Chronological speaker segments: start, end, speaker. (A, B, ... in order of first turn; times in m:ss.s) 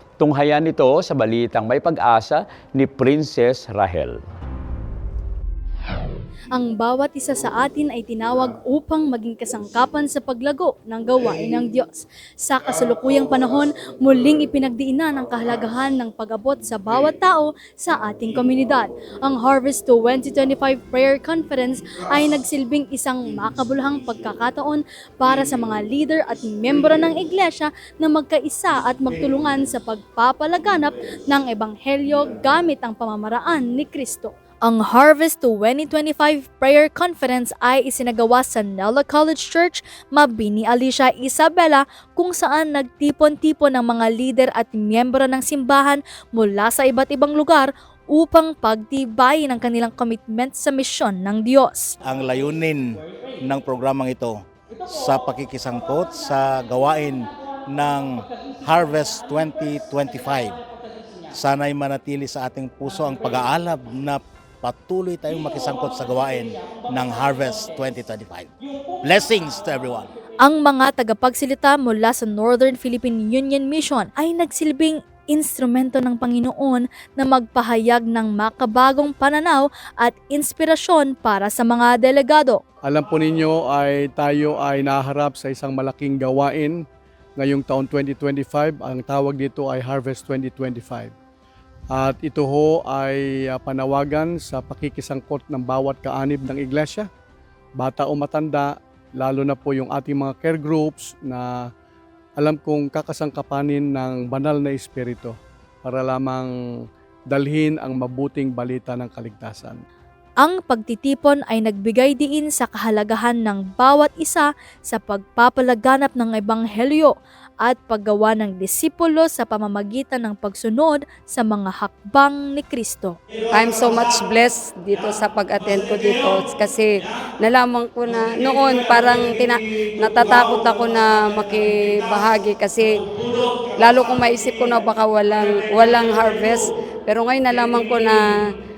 0:00.2-0:04.2 A
0:06.5-0:52.0 B
0:52.0-0:54.4 C
0:54.9-0:58.1 C
0:58.6-1:00.6 C
1:01.3-1:08.5 C
1:09.0-1:10.1 C
1:10.4-1:22.6 B
1:22.9-1:26.8 D
1:27.4-1:31.1 D
1:31.9-1:37.1 D
1:37.8-1:41.6 D
1:42.4-1:46.5 D
1:47.3-1:49.8 D
1:50.4-2:03.2 B
2:03.5-2:18.4 E